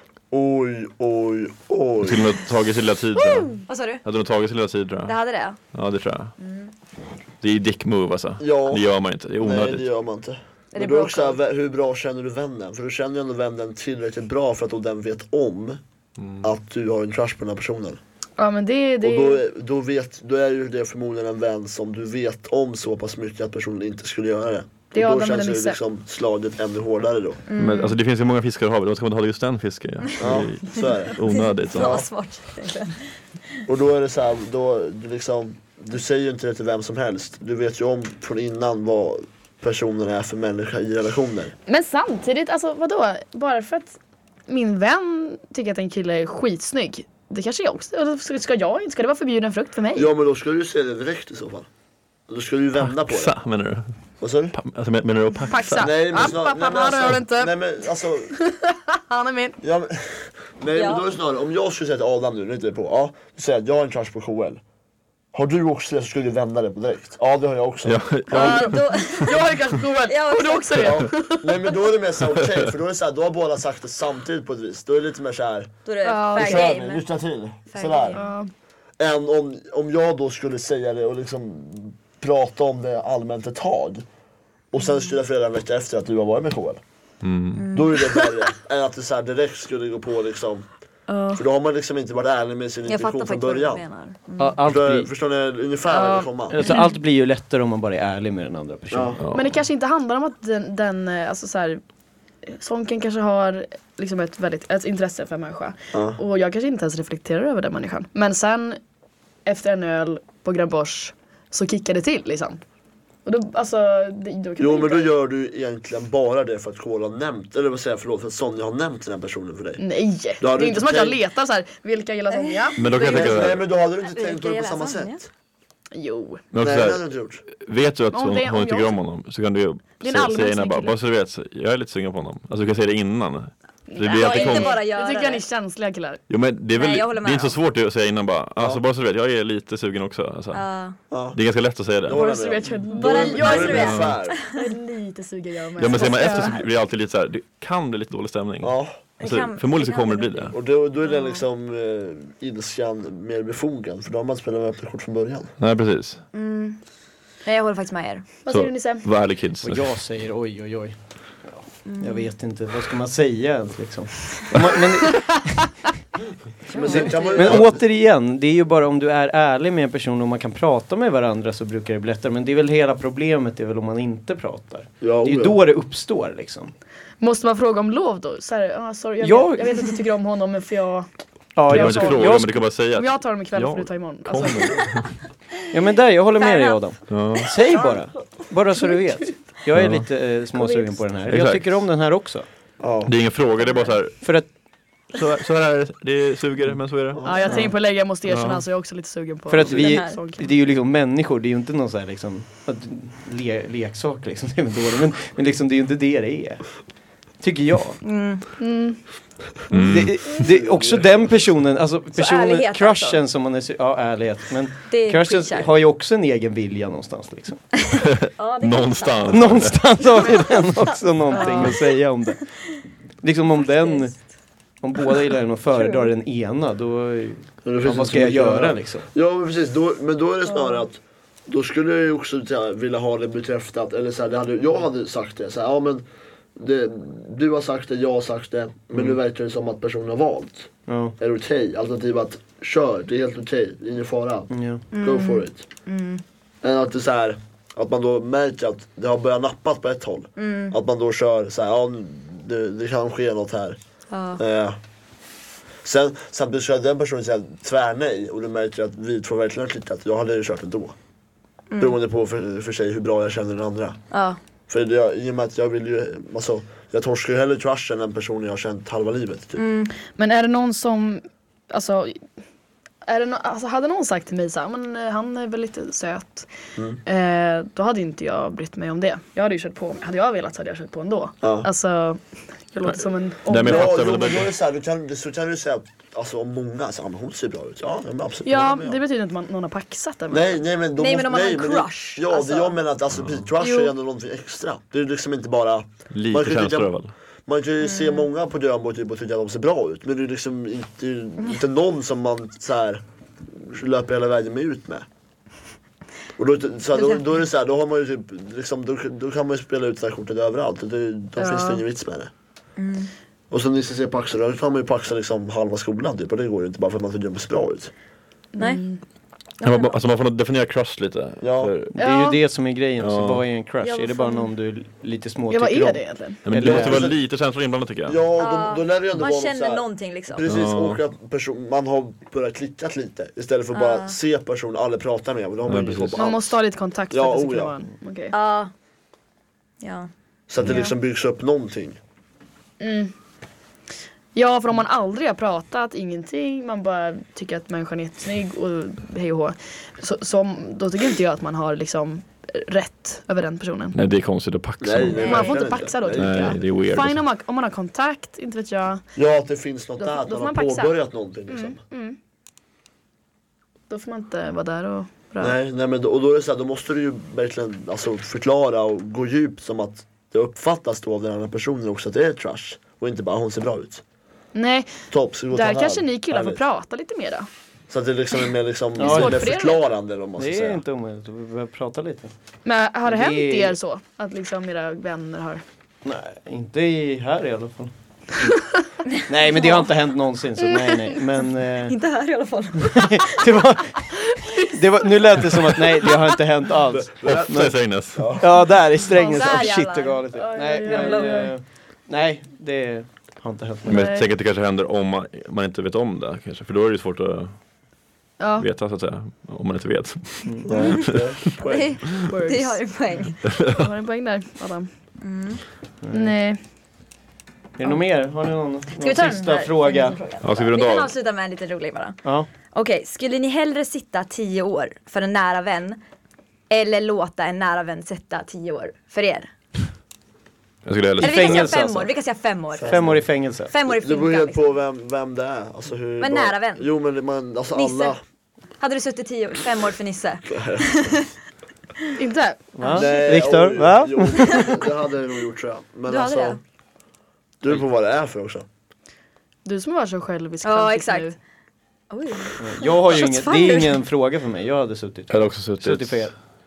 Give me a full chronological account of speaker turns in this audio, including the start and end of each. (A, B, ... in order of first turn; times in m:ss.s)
0:00.3-0:02.4 A
0:02.0-0:05.2 B
0:03.6-0:04.0 C
0:05.0-0:05.6 C
0:05.7-0:06.3 B
0:06.4-0:06.7 C
0:07.4-0:09.9 B
0:08.4-0:15.8 A
0:10.7-0:11.4 C
0:16.2-0:16.5 B
0:16.4-0:18.0 A
0:18.4-0:19.4 D
0:19.0-0:27.4 A
0:24.9-0:25.8 D
0:27.5-0:28.0 C
0:27.6-0:32.0 B
0:30.2-0:31.2 A
0:31.2-0:33.0 C
0:31.7-0:32.1 A
0:33.7-0:41.5 A
0:41.7-0:50.1 D
0:50.0-0:51.7 A
0:52.3-0:53.4 A
0:52.9-0:53.9 B
0:54.2-0:54.6 A
0:54.5-0:56.2 B
0:55.5-0:59.6 D
0:55.8-0:58.3 A
0:59.6-1:04.6 A
1:00.7-1:01.0 C
1:05.3-1:08.7 A
1:07.8-1:09.0 B
1:08.3-1:09.4 C
1:08.3-1:11.8 D
1:10.1-1:11.0 C
1:10.8-1:15.7 A
1:15.8-1:17.0 C
1:16.0-1:16.7 D
1:16.3-1:18.2 A
1:17.7-1:18.2 C
1:18.1-1:18.5 D
1:19.0-1:24.0 A
1:24.7-1:26.8 A
1:27.2-1:27.7 B
1:27.6-1:27.9 C
1:27.7-1:30.7 A
1:28.0-1:28.3 D
1:31.1-1:31.4 D
1:31.3-1:33.8 A
1:32.9-1:34.6 C
1:34.4-1:35.1 E
1:34.6-1:36.6 A
1:35.9-1:36.9 D
1:36.5-1:39.2 E
1:38.9-1:39.2 A
1:39.2-1:39.6 B
1:39.3-1:41.8 D
1:42.4-1:48.8 D
1:45.9-1:46.2 A
1:49.4-1:52.6 D
1:53.2-1:55.1 D
1:54.6-1:59.8 A
1:59.8-2:03.6 D
2:00.4-2:01.2 A
2:02.8-2:03.6 B
2:03.1-2:05.3 A
2:04.0-2:05.2 C
2:05.9-2:06.4 D
2:06.5-2:14.8 B
2:06.6-2:07.4 A
2:08.1-2:09.0 D
2:10.0-2:11.0 D
2:13.9-2:16.2 D
2:14.1-2:15.4 C
2:16.3-2:20.7 B
2:16.7-2:17.6 C
2:20.5-2:21.0 C
2:21.1-2:21.4 A
2:21.3-2:22.4 B
2:22.0-2:24.4 A
2:22.1-2:26.6 D
2:22.9-2:24.7 C
2:23.6-2:24.1 B
2:25.8-2:30.6 B
2:25.9-2:26.6 C
2:28.6-2:28.9 A
2:29.2-2:30.5 C
2:30.5-2:35.5 A
2:35.6-2:36.2 B
2:36.3-2:36.8 C
2:37.4-2:38.4 C
2:38.4-2:39.1 D
2:38.5-2:40.0 B
2:39.6-2:45.6 E
2:41.9-2:42.3 C
2:46.7-2:47.7 C
2:46.7-2:47.8 A
2:46.7-2:56.7 E
2:55.0-2:55.6 A
2:57.2-3:04.9 D
2:59.2-2:59.8 E
3:01.6-3:02.6 E
3:01.6-3:05.2 B
3:05.7-3:12.4 E
3:06.4-3:06.8 C
3:07.1-3:07.5 B
3:07.5-3:08.0 C
3:09.7-3:10.1 B
3:10.6-3:10.8 D
3:11.3-3:11.8 B
3:12.8-3:13.1 A
3:13.0-3:14.3 B
3:14.2-3:14.5 E
3:15.1-3:17.6 B
3:17.1-3:17.5 A
3:17.2-3:20.5 D
3:17.4-3:17.7 E
3:18.3-3:18.6 B
3:19.5-3:26.8 E
3:19.7-3:20.2 C
3:27.4-3:28.0 E
3:28.0-3:28.5 C
3:28.6-3:29.0 D
3:29.7-3:30.4 B
3:29.7-3:37.7 E
3:30.5-3:31.5 A
3:32.1-3:33.2 C
3:34.9-3:35.7 C
3:37.9-3:40.6 C
3:38.0-3:39.9 B
3:39.3-3:42.6 E
3:41.3-3:41.9 C
3:41.3-3:41.7 D
3:43.2-3:44.2 E
3:43.6-3:44.2 C
3:44.8-3:49.1 E
3:45.7-3:46.1 C
3:47.6-3:56.0 A
3:50.4-3:50.8 C
3:56.6-4:05.7 A
4:00.9-4:01.2 E
4:04.5-4:04.8 E
4:04.9-4:05.4 D
4:05.9-4:06.2 C
4:06.6-4:13.8 A
4:10.4-4:10.8 C
4:14.1-4:14.4 C
4:14.4-4:14.8 A
4:15.8-4:21.0 A
4:21.7-4:22.0 C
4:21.8-4:24.0 A
4:24.1-4:24.4 C
4:24.7-4:29.6 A
4:29.6-4:29.9 C
4:30.1-4:32.2 D
4:33.1-4:36.5 D
4:37.0-4:44.1 D
4:41.4-4:41.7 A
4:43.4-4:44.5 B
4:43.6-4:49.0 A
4:48.4-4:50.5 D
4:50.3-4:56.9 A
4:51.0-4:52.8 C
4:53.2-4:53.5 B
4:53.6-4:53.9 C
4:56.1-4:57.1 B
4:57.5-5:05.1 A
4:57.8-4:58.3 C
5:06.4-5:12.3 A
5:11.4-5:11.8 D
5:12.8-5:13.1 C
5:13.5-5:17.9 A
5:18.6-5:19.0 D
5:18.6-5:18.8 C
5:19.6-5:20.0 C
5:19.6-5:22.0 B
5:21.4-5:21.7 A
5:22.0-5:27.1 E
5:22.0-5:22.4 D
5:23.0-5:23.4 B
5:23.8-5:24.5 C
5:25.5-5:26.4 D
5:26.4-5:28.2 B
5:26.6-5:27.2 A
5:28.1-5:36.5 A
5:28.4-5:30.5 C
5:30.4-5:31.0 B
5:33.7-5:34.2 C
5:35.7-5:36.3 B
5:36.2-5:38.3 D
5:37.1-5:37.7 A
5:38.3-5:38.7 C
5:39.8-5:40.1 C
5:40.5-5:42.0 A
5:42.8-5:43.1 D
5:44.4-5:54.0 D
5:53.9-5:55.4 B
5:54.8-5:56.6 A
5:55.2-5:59.0 D
5:56.1-5:57.2 B
5:59.1-6:01.8 A
6:00.0-6:01.0 D
6:01.5-6:02.2 D
6:03.9-6:05.6 D
6:05.4-6:14.0 A
6:14.6-6:17.5 D
6:15.1-6:16.6 A
6:17.9-6:20.8 A
6:19.0-6:19.4 E
6:19.0-6:19.8 D
6:20.4-6:22.3 E
6:22.6-6:25.6 D
6:23.1-6:23.8 E
6:26.0-6:28.6 E
6:29.2-6:32.0 E
6:29.6-6:29.8 C
6:30.7-6:31.1 D
6:31.9-6:33.4 C
6:32.8-6:44.1 E
6:34.3-6:34.7 D
6:36.9-6:38.4 A
6:37.2-6:38.4 B
6:39.1-6:41.5 D
6:40.8-6:41.5 C
6:43.9-6:47.6 B
6:43.9-6:44.3 D
6:48.4-6:48.7 D
6:48.6-6:51.5 B
6:50.7-6:52.1 A
6:51.6-6:53.4 C
6:52.1-6:52.8 D
6:53.4-6:54.9 D
6:53.5-6:53.8 B
6:55.2-6:55.6 C
6:56.0-6:56.3 E
6:56.1-6:56.6 D
6:57.8-7:00.2 E
6:59.0-7:02.2 C
7:00.4-7:01.1 B
7:02.7-7:06.0 C
7:06.7-7:09.5 C
7:10.9-7:11.7 B
7:11.2-7:12.1 E
7:11.2-7:14.6 C
7:12.7-7:13.3 A
7:12.9-7:13.7 E
7:13.9-7:18.2 A
7:16.2-7:16.9 C
7:17.7-7:18.1 C
7:18.8-7:21.2 C
7:20.4-7:21.2 A
7:22.2-7:23.1 D
7:22.8-7:24.8 E
7:22.9-7:26.6 A
7:26.1-7:26.6 C
7:27.6-7:28.7 A
7:29.6-7:31.4 D
7:30.6-7:31.3 C
7:32.1-7:34.0 C
7:32.6-7:36.4 E
7:35.3-7:36.4 B